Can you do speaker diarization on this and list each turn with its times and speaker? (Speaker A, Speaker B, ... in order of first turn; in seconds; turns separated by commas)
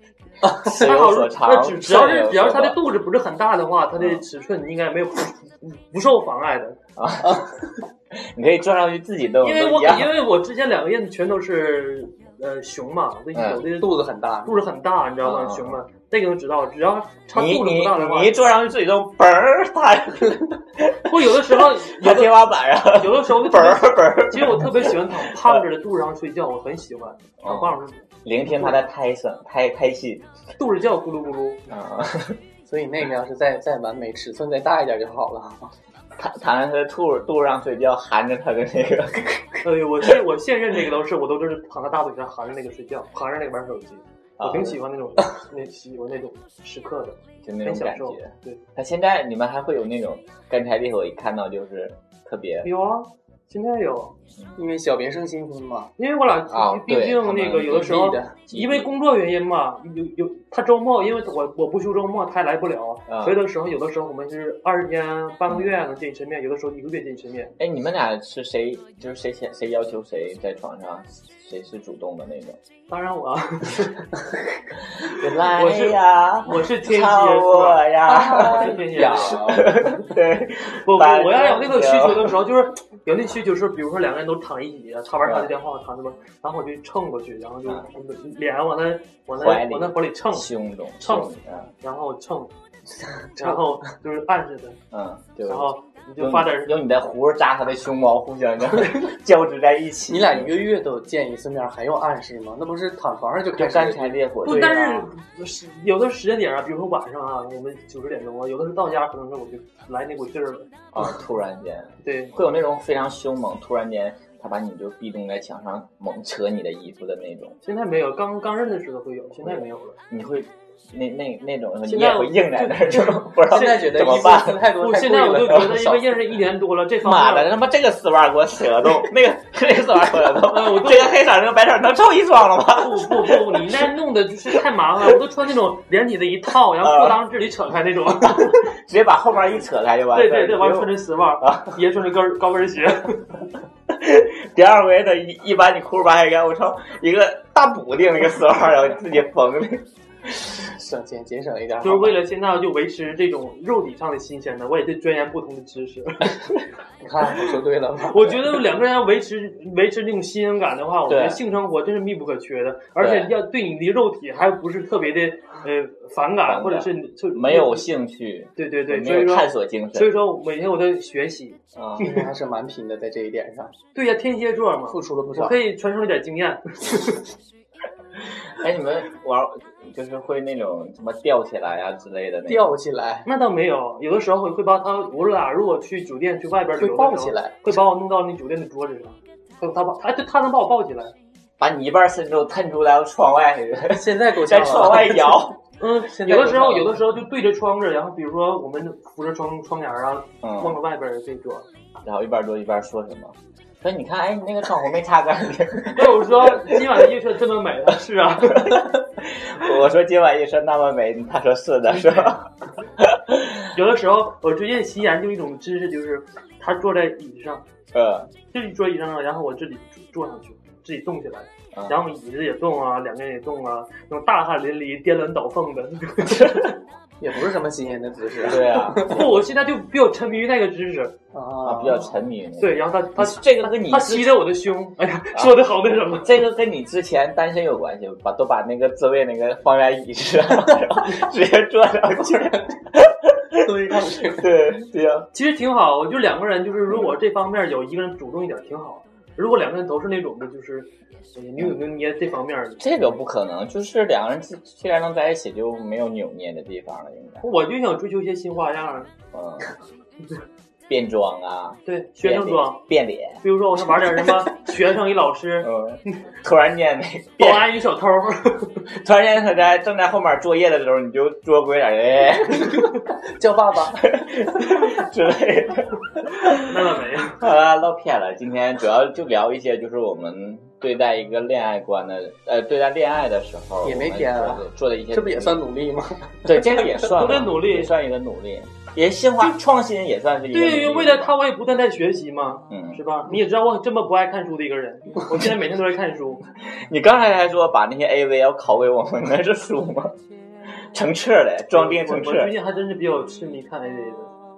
Speaker A: 0.4-0.8, Speaker B: 0.6-2.8, Speaker C: 0.7-6.8, Speaker B: 4.0-4.2, Speaker B: 7.0-7.4, Speaker B: 8.2-10.2, Speaker C: 9.4-18.4, Speaker B: 13.3-13.6, Speaker A: 13.6-14.6, Speaker B: 15.2-15.8, Speaker B: 17.4-25.6, Speaker C: 21.0-28.8, Speaker B: 27.4-30.3, Speaker C: 30.6-31.7, Speaker B: 31.7-32.4, Speaker A: 32.7-35.7, Speaker B: 36.2-39.7, Speaker C: 39.6-48.6, Speaker B: 44.4-44.8, Speaker B: 47.4-52.7, Speaker C: 52.6-54.1, Speaker A: 54.6-55.9, Speaker C: 56.0-67.5, Speaker B: 56.5-58.9, Speaker A: 57.7-58.4, Speaker B: 63.1-63.4, Speaker B: 67.6-72.6, Speaker C: 72.9-74.2, Speaker C: 75.0-79.8, Speaker B: 75.0-82.3, Speaker A: 78.3-80.0, Speaker C: 80.8-92.5, Speaker B: 85.2-85.5, Speaker B: 89.3-91.7, Speaker A: 93.4-93.8, Speaker C: 93.4-94.8, Speaker B: 94.9-100.5, Speaker C: 95.4-96.7, Speaker A: 100.1-105.1, Speaker B: 103.5-104.8, Speaker C: 104.4-110.7, Speaker B: 110.9-117.6, Speaker C: 112.0-112.3, Speaker C: 117.6-120.0, Speaker B: 119.4-124.7, Speaker C: 121.8-123.3, Speaker A: 123.5-126.3, Speaker C: 124.8-127.5, Speaker B: 127.0-133.7, Speaker C: 130.4-131.2, Speaker C: 132.7-138.7, Speaker B: 136.8-137.2, Speaker B: 138.2-141.8, Speaker C: 140.1-143.4, Speaker B: 143.9-150.5, Speaker A: 150.6-152.2, Speaker C: 151.8-156.5, Speaker A: 157.0-158.4, Speaker C: 158.1-167.9, Speaker B: 161.1-161.4, Speaker B: 163.0-163.3, Speaker B: 166.4-170.2, Speaker C: 168.6-172.2, Speaker B: 171.8-172.1, Speaker A: 172.0-173.7, Speaker C: 173.9-177.2, Speaker A: 174.9-175.6, Speaker B: 178.6-182.7, Speaker A: 182.5-183.3, Speaker C: 183.2-191.2, Speaker A: 186.8-187.8, Speaker B: 191.6-195.6, Speaker A: 193.9-195.4, Speaker C: 195.8-201.7, Speaker A: 196.0-197.0, Speaker B: 200.4-200.8, Speaker B: 202.0-206.8, Speaker C: 205.9-208.9, Speaker B: 208.4-212.5, Speaker C: 211.9-212.3, Speaker B: 213.0-213.7, Speaker C: 213.7-217.6, Speaker B: 217.9-218.3, Speaker C: 218.5-226.7, Speaker B: 221.7-222.0, Speaker B: 226.2-226.7, Speaker A: 227.2-229.2, Speaker B: 228.4-229.4, Speaker C: 229.0-231.2, Speaker A: 231.3-232.1, Speaker B: 231.6-234.3, Speaker C: 232.6-236.4, Speaker B: 236.2-245.3, Speaker A: 243.6-244.5, Speaker C: 245.3-252.8, Speaker B: 252.8-257.4, Speaker C: 257.4-259.1, Speaker B: 259.3-259.7, Speaker B: 260.9-263.4, Speaker C: 261.9-262.8, Speaker C: 263.4-265.7, Speaker B: 265.6-267.7, Speaker C: 267.4-268.8, Speaker B: 268.9-272.9, Speaker A: 272.6-274.1, Speaker B: 274.0-276.7, Speaker C: 276.6-277.4, Speaker B: 277.4-285.6, Speaker A: 283.8-287.0, Speaker B: 286.4-291.4, Speaker C: 287.1-287.9, Speaker C: 290.5-296.4, Speaker B: 292.7-293.0, Speaker B: 296.7-300.1, Speaker B: 300.9-302.6, Speaker C: 301.7-304.3